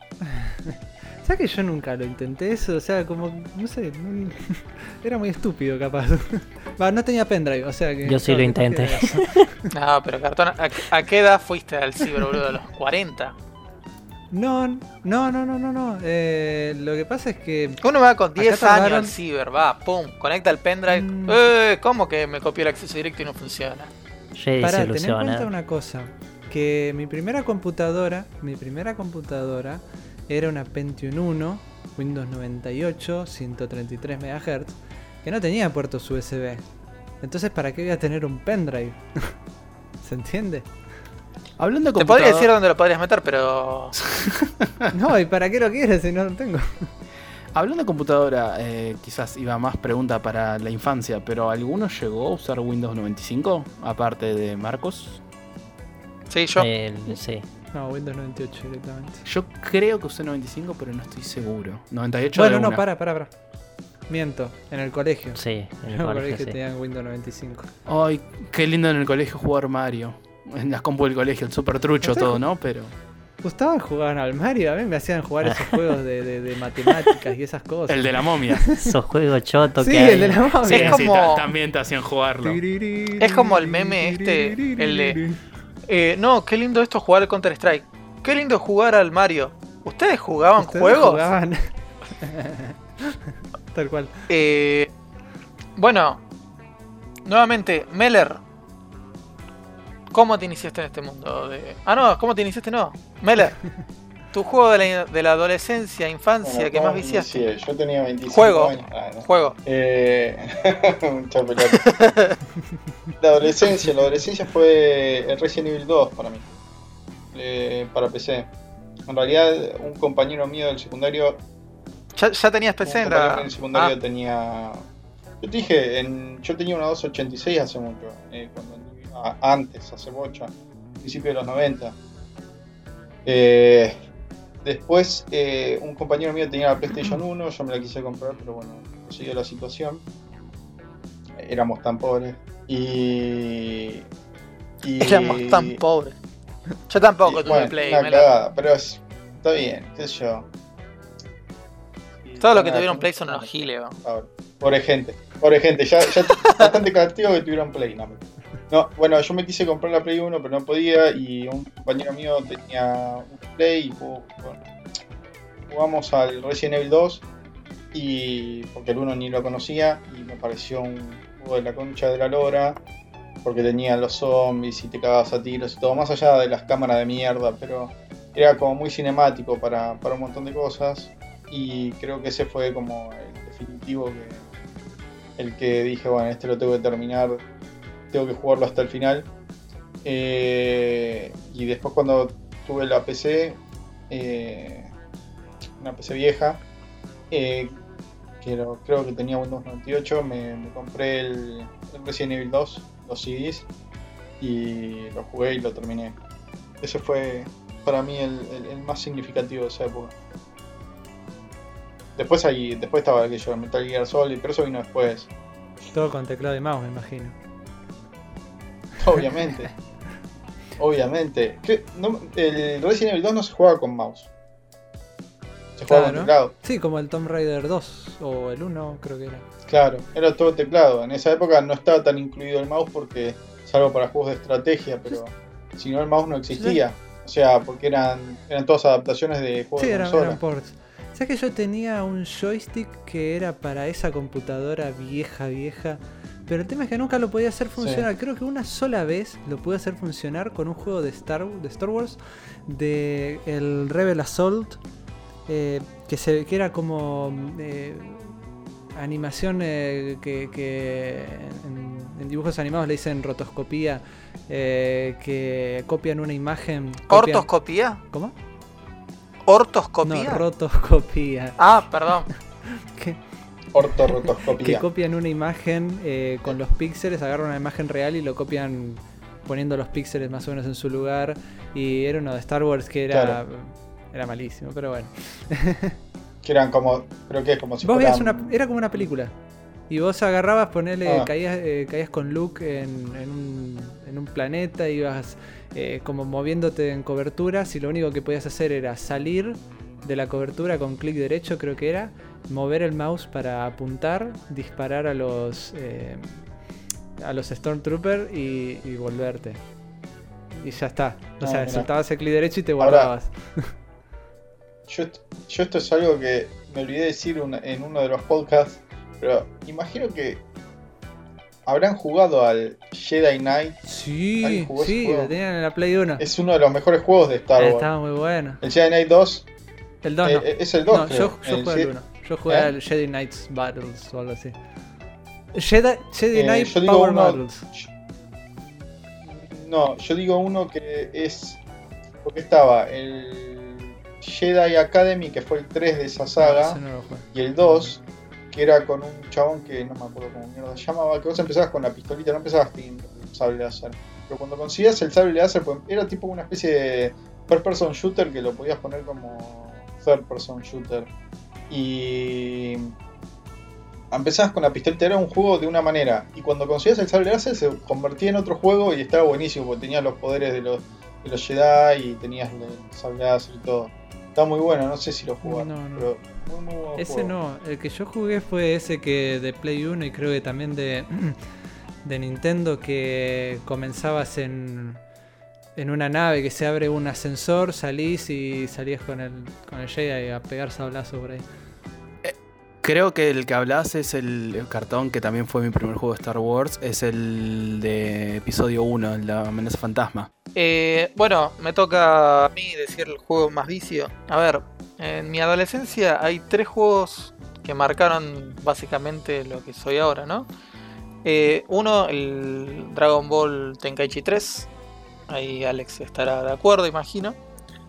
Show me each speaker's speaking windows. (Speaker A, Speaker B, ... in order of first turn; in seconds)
Speaker A: 0.2-9.5, 14.3-17.8, 18.4-19.1, 20.9-21.4, 24.6-36.6, 37.2-39.3, 40.0-40.7, 44.9-46.9, 57.7-59.2, 62.3-63.3, 64.1-67.7, 72.0-72.4, 73.4-78.9, 79.8-81.0, 82.4-85.4, 90.6-93.2, 93.7-94.3, 113.7-114.2, 215.9-217.3, 225.9-229.4, 236.5-236.8, 239.8-254.8, 255.5-258.4, 258.9-267.5, 268.0-268.3, 270.0-272.1, 272.6-273.2, 273.8-285.9, 287.8-289.3, 289.9-306.5, 307.2-309.6, 310.6-313.7, 323.8-326.2, 327.6-328.6, 330.0-334.6, 335.5-337.7, 346.4-347.9, 375.4-376.1, 377.0-381.4, 382.0-385.0, 385.8-391.4
Speaker B: 8.0-9.5, 24.3-25.5, 56.6-57.5, 65.3-66.6, 75.4-75.9, 78.7-80.6
Speaker C: 9.7-13.3, 17.8-23.9, 42.0-44.0, 56.3-56.7, 80.6-81.5, 83.2-85.2, 85.9-91.3, 94.3-94.9, 95.8-96.2, 97.2-98.4, 100.1-103.6, 104.3-107.5, 108.3-109.5, 111.6-112.4, 122.1-123.9, 145.0-146.2, 146.9-148.3, 152.4-153.9, 156.3-156.7, 267.1-268.0, 269.5-270.4, 271.6-272.3, 400.5-410.5, 411.2-414.7, 415.3-417.4
Speaker D: 41.6-42.5, 44.0-44.9, 47.5-55.2, 59.2-62.8, 67.8-72.9, 77.9-78.7, 80.7-82.6, 392.2-400.3
Speaker E: 106.4-111.9, 113.2-116.5, 117.3-118.5, 119.1-121.4, 122.8-124.8, 125.4-131.9, 133.2-133.9, 134.6-140.0, 141.4-144.0, 144.8-145.8, 147.2-150.5, 152.2-164.6, 165.7-167.2, 167.9-172.8, 173.4-184.4, 185.4-187.4, 188.1-189.3, 190.0-194.9, 195.8-196.6, 197.3-197.7, 198.4-203.7, 204.4-206.2, 206.8-210.1, 212.2-215.3, 219.0-219.7, 220.8-224.3, 225.8-226.5, 229.7-240.4, 247.8-248.1, 273.7-274.8, 283.1-283.4, 286.4-288.5, 311.4-311.9, 312.8-313.1, 314.9-320.4, 321.6-323.8, 324.4-325.3, 326.2-327.9, 328.6-329.5, 330.2-331.9, 336.3-337.9, 339.3-341.6, 342.2-346.8, 347.3-361.1, 361.7-362.9, 364.1-377.4